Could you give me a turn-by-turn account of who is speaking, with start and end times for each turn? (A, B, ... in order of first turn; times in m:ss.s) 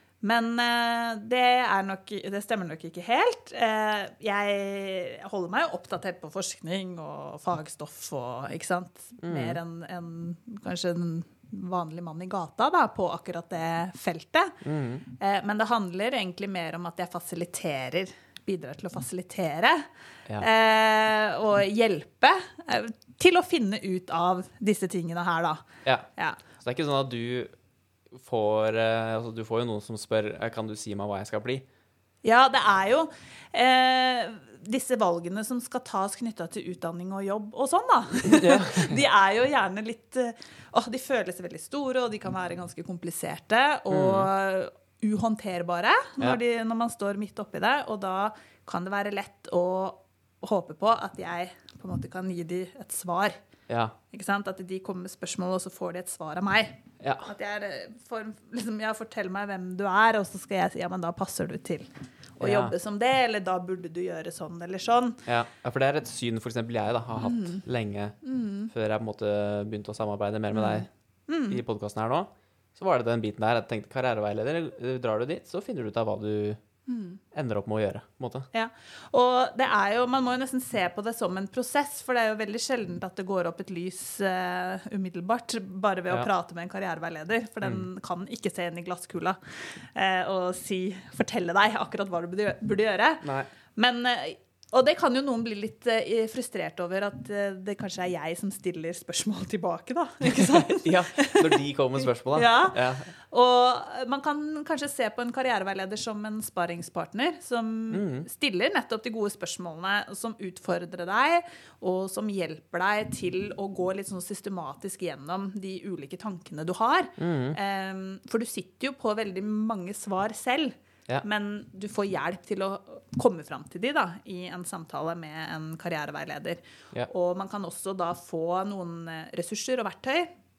0:00.2-0:19.9 A
0:09.2-0:09.6 B
0:14.6-0:15.0 B
0:20.4-0:25.6 A
0:25.8-0:27.5 B
0:28.1-0:31.6 B
0:32.2-0:53.4 A
0:38.3-0:39.0 B
0:43.9-0:44.3 B
0:53.7-0:53.9 B
0:54.1-1:05.2 A
0:57.0-0:57.3 B
1:02.4-1:02.7 B
1:05.2-1:08.2 B
1:07.2-1:07.6 A
1:08.2-1:08.7 A
1:08.7-1:10.9 B
1:10.5-1:11.6 A
1:11.5-1:16.6 B
1:16.9-1:17.2 A
1:17.3-1:18.5 B
1:18.5-2:10.3 A
1:33.2-1:33.5 B
1:40.2-1:43.1 B
1:47.9-1:48.3 B
1:57.2-1:57.6 B